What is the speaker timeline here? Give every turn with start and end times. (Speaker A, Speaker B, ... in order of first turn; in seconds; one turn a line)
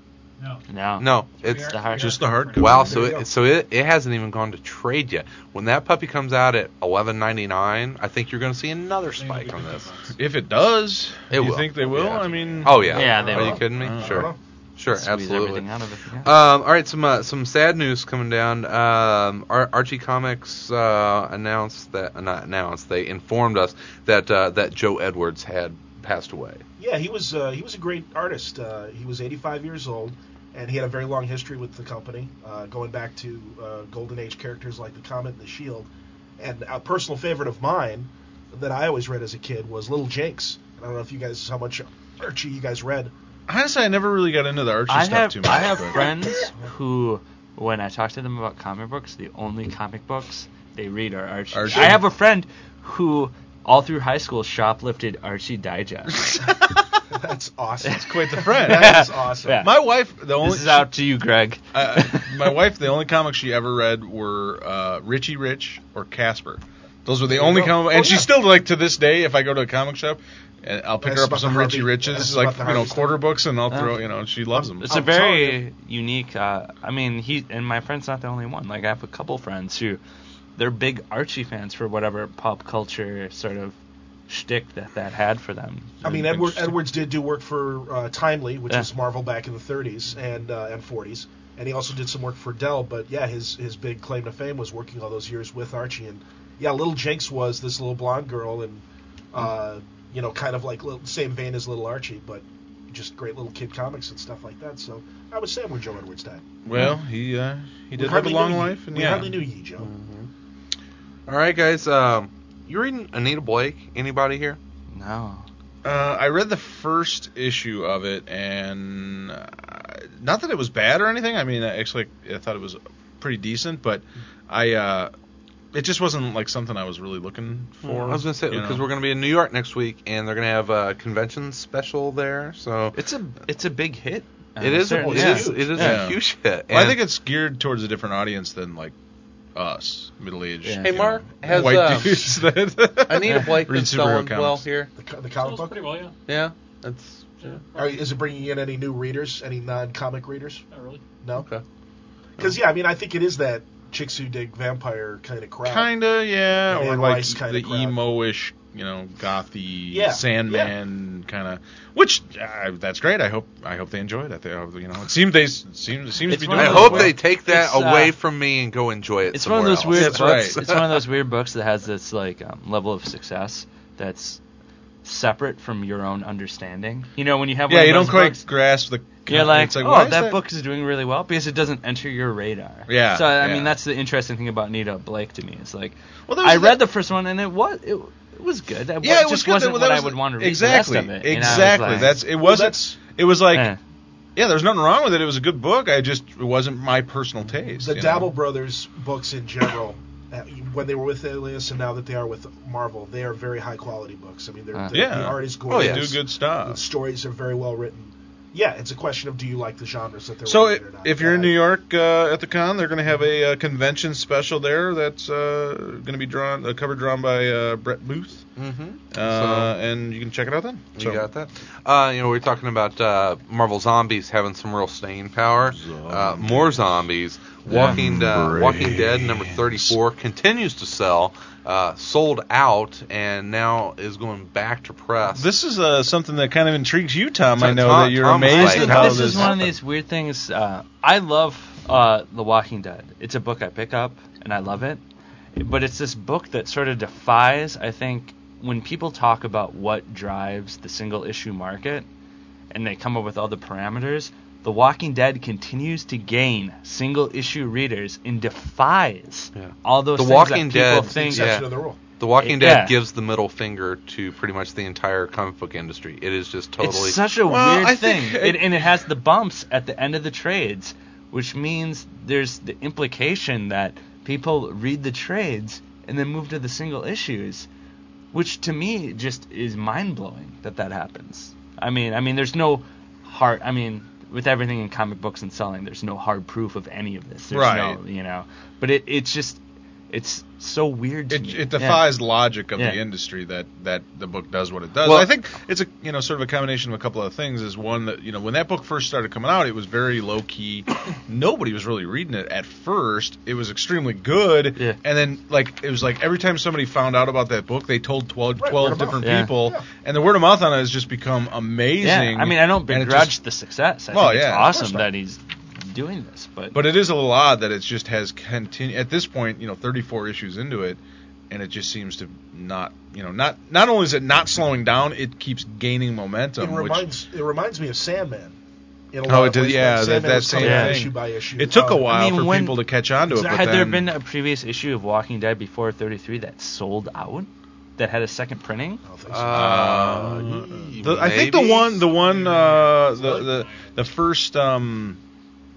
Speaker A: 0.7-2.2
Speaker B: 1.0-1.8
Speaker C: 1.4-2.9
Speaker D: 2.0-2.9
Speaker B: 2.5-9.9
Speaker E: 2.8-3.3
Speaker C: 9.2-10.1
Speaker D: 10.2-14.3
Speaker B: 11.3-15.7
Speaker C: 11.9-12.7
Speaker E: 12.8-14.3
Speaker A: 12.9-13.6
Speaker A: 14.9-16.3
Speaker B: 16.2-26.6
Speaker E: 26.8-43.1
Speaker D: 43.5-46.2
Speaker A: 44.9-56.5
Speaker D: 51.5-52.0
Speaker D: 56.1-56.5
Speaker E: 57.1-59.6
Speaker A: 57.8-59.7
Speaker D: 58.0-60.9
Speaker A: 60.4-62.6
Speaker D: 61.7-74.9
Speaker E: 67.3-68.3
Speaker E: 71.0-73.2
Speaker A: 73.7-74.0
Speaker A: 74.8-80.0
Speaker E: 74.8-75.6
Speaker A: 80.6-83.8
Speaker A: 84.3-86.0
Speaker E: 86.0-106.4
Speaker D: 86.0-86.8
Speaker D: 106.6-109.4
Speaker E: 107.9-109.9
Speaker B: 109.8-110.3
Speaker B: 111.3-114.6
Speaker A: 114.9-115.4
Speaker D: 115.8-125.1
Speaker D: 125.7-128.8
Speaker B: 127.8-132.9
Speaker A: 132.9-136.0
Speaker B: 134.6-137.0
Speaker E: 134.9-135.8
Speaker D: 135.8-138.9
Speaker D: 139.5-144.6
Speaker A: 140.6-140.9
Speaker B: 140.8-142.3
Speaker B: 143.1-144.9
Speaker A: 143.2-143.5
Speaker E: 145.0-145.9
Speaker C: 145.4-146.2
Speaker B: 146.3-147.6
Speaker C: 147.4-148.1
Speaker E: 147.7-150.6
Speaker C: 150.7-151.0
Speaker E: 151.2-151.5
Speaker B: 151.3-151.6
Speaker E: 152.4-155.9
Speaker D: 155.6-167.2
Speaker E: 156.7-158.0
Speaker E: 159.9-160.7
Speaker A: 166.3-168.1
Speaker B: 166.5-170.8
Speaker A: 169.3-174.4
Speaker D: 169.9-170.8
Speaker A: 175.0-178.5
Speaker D: 177.7-180.4
Speaker A: 179.2-192.2
Speaker D: 182.9-183.7
Speaker D: 186.3-186.8
Speaker D: 189.0-193.7
Speaker E: 191.5-193.0
Speaker A: 193.5-193.8
Speaker D: 194.3-198.3
Speaker E: 197.8-211.5
Speaker D: 204.9-206.8
Speaker B: 205.7-206.1
Speaker D: 210.4-218.4
Speaker B: 218.6-219.7
Speaker D: 219.1-221.3
Speaker B: 220.9-235.5
Speaker D: 225.7-227.0
Speaker D: 227.7-229.9
Speaker D: 235.3-239.7
Speaker B: 237.5-239.6
Speaker A: 238.5-245.0
Speaker A: 245.6-252.1
Speaker A: 252.7-261.6
Speaker B: 259.5-267.2
Speaker E: 261.0-262.0
Speaker A: 262.4-262.9
Speaker A: 266.8-277.7
Speaker D: 267.4-268.9
Speaker A: 278.3-292.1
Speaker D: 287.5-288.0
Speaker D: 291.3-313.4
Speaker B: 295.0-295.3
Speaker E: 308.6-309.9
Speaker A: 309.2-309.5
Speaker A: 312.0-316.8
Speaker D: 314.1-315.1
Speaker D: 316.7-327.1
Speaker E: 326.6-328.5
Speaker E: 329.1-332.1
Speaker D: 329.2-334.1
Speaker A: 330.6-331.0
Speaker A: 332.1-339.0
Speaker E: 339.0-339.8
Speaker B: 339.3-342.0
Speaker D: 339.5-345.2
Speaker C: 342.0-344.0